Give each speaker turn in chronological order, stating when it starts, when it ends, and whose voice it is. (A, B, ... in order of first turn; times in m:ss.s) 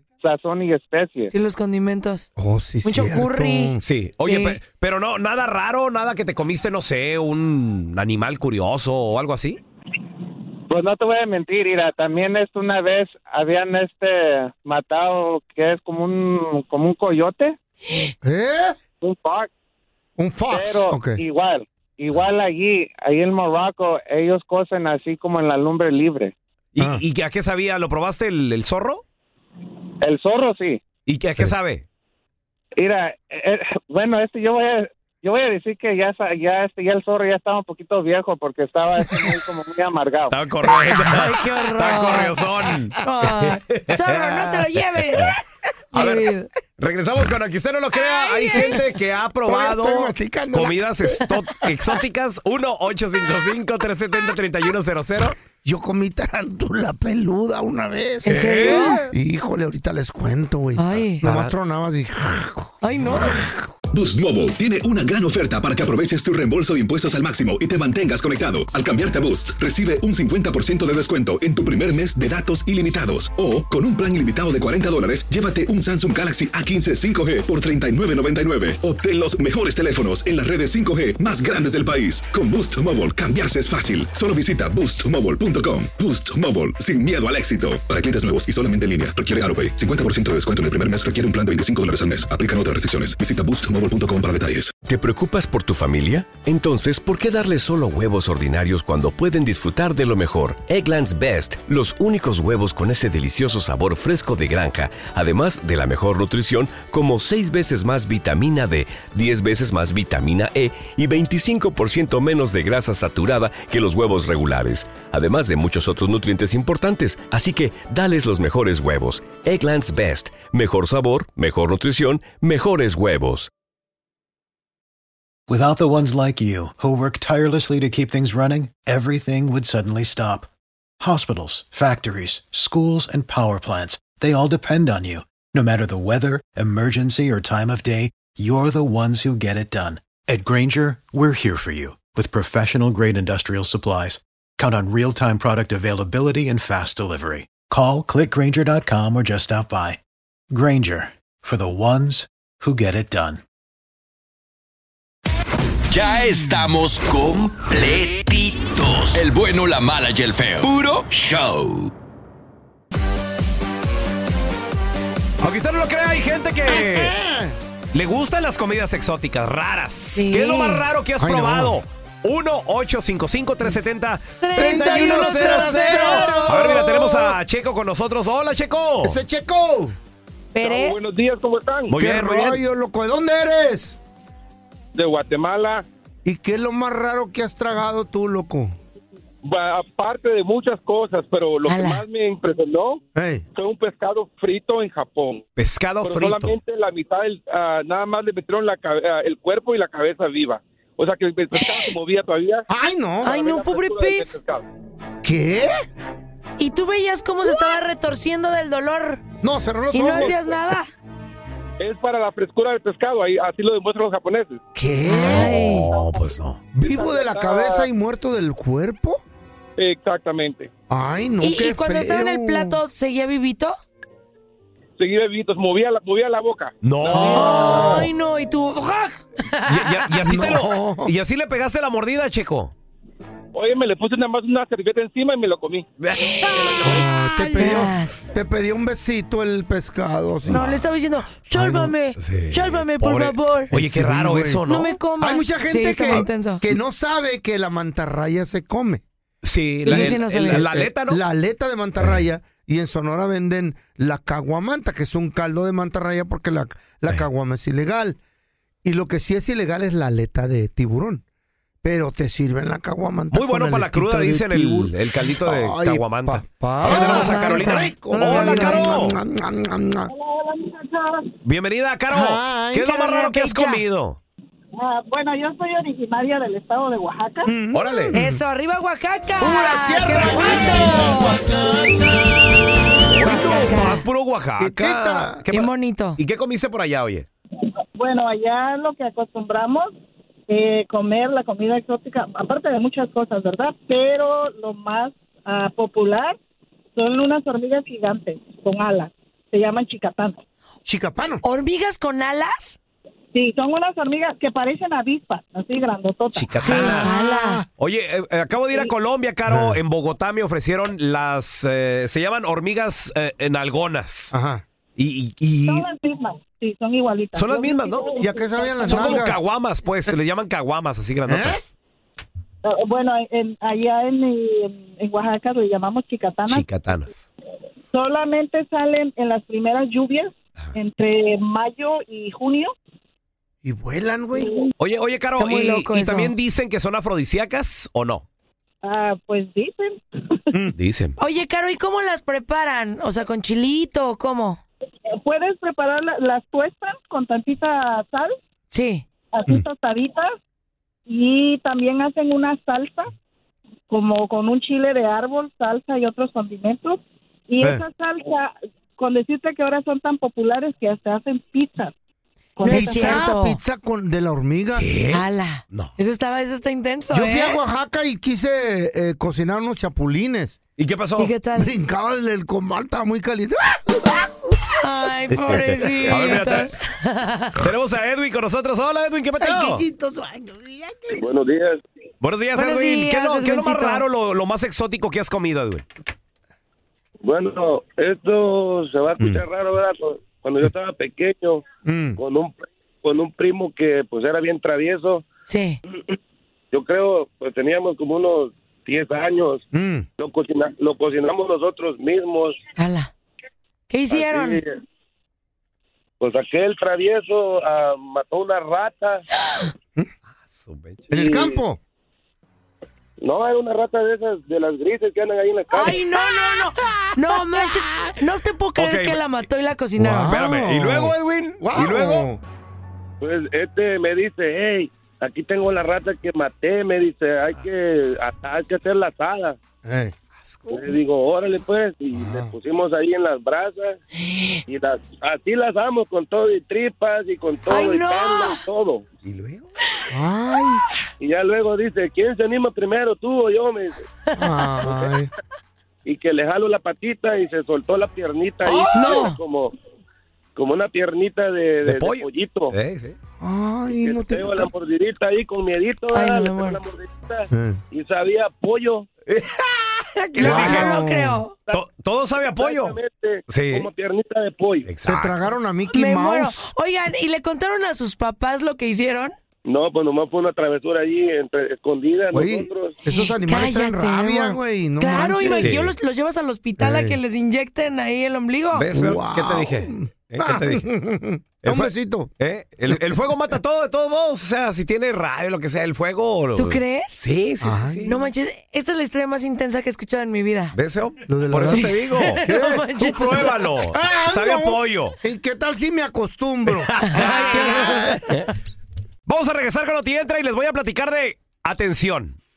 0:00.2-0:01.3 A
0:01.3-0:02.3 B
0:02.4-0:03.8 C
0:02.8-0:04.6 B
0:03.8-0:09.6 D
0:10.7-0:17.6 A
0:18.2-0:18.8 C
0:19.0-0:19.5 A
0:20.2-0:21.2 C
0:20.5-0:26.3 A
0:26.8-0:29.0 D
0:30.0-0:30.8 A
0:31.1-0:31.8 D
0:32.8-0:40.4 A
0:40.3-0:45.4 D
0:40.9-0:42.4 B
0:43.0-0:45.4 B
0:45.9-0:46.5 B
0:45.9-0:55.4 D
0:48.0-0:48.8 B
0:49.5-0:51.3 C
0:55.6-1:03.7 C
0:58.2-0:59.0 B
0:58.3-0:59.1 D
1:00.8-1:01.2 B
1:01.2-1:01.5 D
1:02.8-1:03.4 B
1:03.9-1:34.8 E
1:34.8-2:03.5 F
2:05.5-2:10.5 G
2:11.0-2:30.0 G
2:30.5-2:33.4 G
2:35.9-2:41.9 H
2:45.4-2:47.2 D
2:46.7-2:47.6 C
2:47.9-2:59.2 D
2:50.2-2:50.8 B
2:51.2-2:51.8 C
2:54.4-2:56.8 B
2:54.6-2:57.4 C
2:59.0-3:00.0 C
3:00.5-3:01.1 B
3:00.6-3:02.0 I
3:01.9-3:02.6 D
3:01.9-3:04.0 C
3:05.0-3:05.9 I
3:06.2-3:08.8 C
3:09.4-3:13.0 I
3:11.7-3:12.0 B
3:13.2-3:13.4 C
3:13.6-3:15.4 I
3:15.6-3:16.6 D
3:16.0-3:22.7 I
3:22.7-3:23.4 C
3:23.2-3:24.4 B
3:23.3-3:24.7 I
3:25.2-3:25.8 C
3:26.6-3:29.2 B
3:29.4-3:30.4 C
3:29.9-3:30.9 B
3:31.8-3:34.6 I
3:34.8-3:35.7 C
3:35.1-3:35.9 B
3:35.2-3:36.6 D
3:36.7-3:39.2 C
3:36.8-3:37.9 I
3:39.8-3:40.7 I
3:40.9-3:42.8 C
3:41.4-3:43.8 B
3:45.0-3:47.4 I
3:46.8-3:48.1 D
3:47.1-3:48.1 C
3:47.3-3:50.1 B
3:49.7-3:52.7 D
3:50.2-3:51.1 C
3:53.5-3:55.9 I
3:56.0-3:57.9 D
3:56.2-3:58.2 B
3:56.8-4:00.8 C
4:00.5-4:03.7 B
4:01.5-4:01.9 C
4:02.2-4:05.0 D
4:03.7-4:04.6 C
4:04.7-4:06.6 B
4:05.2-4:09.0 C
4:09.4-4:11.2 D
4:09.8-4:18.2 C
4:09.9-4:10.7 B
4:18.8-4:21.2 C
4:21.8-4:30.1 C
4:23.3-4:29.2 D
4:26.8-4:28.9 B
4:30.1-4:31.4 J
4:31.4-4:34.2 D
4:32.1-4:32.9 C
4:32.8-4:33.8 B
4:34.8-4:37.5 J
4:37.5-4:38.4 C
4:37.7-4:38.1 D
4:38.1-4:41.4 B
4:39.4-4:41.6 C
4:43.1-4:47.3 D
4:43.2-4:44.0 B
4:43.2-4:43.7 C
4:44.6-4:45.4 C
4:45.5-4:46.2 B
4:48.0-4:49.9 J
4:50.5-4:56.4 J
4:57.0-5:00.4 J
5:00.8-5:01.4 C
5:01.4-5:02.8 B
5:03.3-5:06.8 J
5:06.3-5:07.1 D
5:06.6-5:07.6 B
5:06.7-5:07.7 C
5:07.8-5:14.3 D
5:09.5-5:09.8 C
5:14.3-5:14.6 C
5:15.0-5:15.9 D
5:15.7-5:19.3 J
5:17.3-5:18.1 D
5:18.2-5:19.4 C
5:18.9-5:21.7 D
5:21.3-5:21.6 C
5:22.6-5:26.7 J
5:26.5-5:27.2 D
5:27.9-5:32.7 J
5:33.6-5:34.5 C
5:34.4-5:34.7 J
5:34.8-5:38.2 D
5:35.4-5:36.3 B
5:38.8-5:40.4 J
5:40.8-5:41.2 D
5:41.2-5:44.6 B
5:45.2-5:48.4 J
5:48.7-5:49.0 B
5:49.3-5:50.3 J
5:51.1-5:53.1 J
5:53.9-6:01.9 J
6:02.6-6:03.3 J
6:02.6-6:03.6 B
6:02.7-6:04.9 C
6:04.8-6:05.9 D
6:05.1-6:07.6 B
6:07.1-6:10.6 C
6:10.8-6:11.3 D
6:11.2-6:11.7 B
6:11.6-6:14.7 C
6:14.8-6:17.6 B
6:15.4-6:16.7 D
6:15.5-6:16.4 C
6:17.6-6:19.8 D
6:19.4-6:21.2 C
6:21.1-6:21.8 K
6:22.2-6:25.8 D
6:22.6-6:24.0 B
6:27.2-6:31.7 K
6:31.8-6:32.2 C
6:32.2-6:35.2 K
6:35.5-6:35.8 B
6:36.7-6:39.6 K
6:39.7-6:40.1 C
6:40.2-6:42.6 K
6:42.8-6:43.1 B
6:43.9-6:44.6 B
6:44.1-6:44.8 K
6:46.2-6:49.2 K
6:50.4-6:51.1 D
6:51.1-6:51.6 K
6:51.1-6:51.8 C
6:53.2-6:56.0 K
6:55.7-7:00.4 B
6:57.4-6:57.7 C
6:58.8-6:59.2 D
7:00.0-7:02.4 C
7:00.2-7:02.3 D
7:03.2-7:09.6 K
7:09.8-7:10.2 C
7:10.7-7:14.0 K
7:12.1-7:12.6 C
7:14.7-7:19.0 K
7:17.7-7:18.6 B
7:19.2-7:19.7 D
7:20.1-7:20.8 C
7:21.2-7:24.1 K
7:24.4-7:25.3 C
7:24.9-7:25.1 K
7:26.0-7:29.7 K
7:28.9-7:29.4 B
7:30.6-7:32.8 K
7:31.8-7:33.2 D
7:33.4-7:34.7 C
7:33.9-7:39.1 K
7:36.1-7:36.8 B
7:37.5-7:37.8 C
7:39.3-7:41.0 D
7:40.4-7:41.4 C
7:40.4-7:41.6 B
7:41.7-7:43.0 D
7:42.4-7:44.9 K
7:43.5-7:43.9 D
7:44.9-7:45.4 D
7:45.0-7:46.6 C
7:45.9-7:49.3 B
7:49.7-7:53.0 K
7:52.3-7:55.8 C
7:53.1-7:58.9 B
7:55.6-7:55.9 D
7:56.8-7:57.2 C
7:58.7-8:00.9 D
7:58.9-8:02.3 C
8:01.6-8:08.2 D
8:02.9-8:03.3 C
8:06.6-8:07.2 B
8:07.6-8:08.2 C
8:08.1-8:10.8 B
8:10.8-8:12.5 D
8:11.3-8:18.3 C
8:11.7-8:13.6 B
8:13.0-8:15.2 D
8:16.7-8:18.5 D
8:17.0-8:18.2 B
8:19.3-8:22.4 D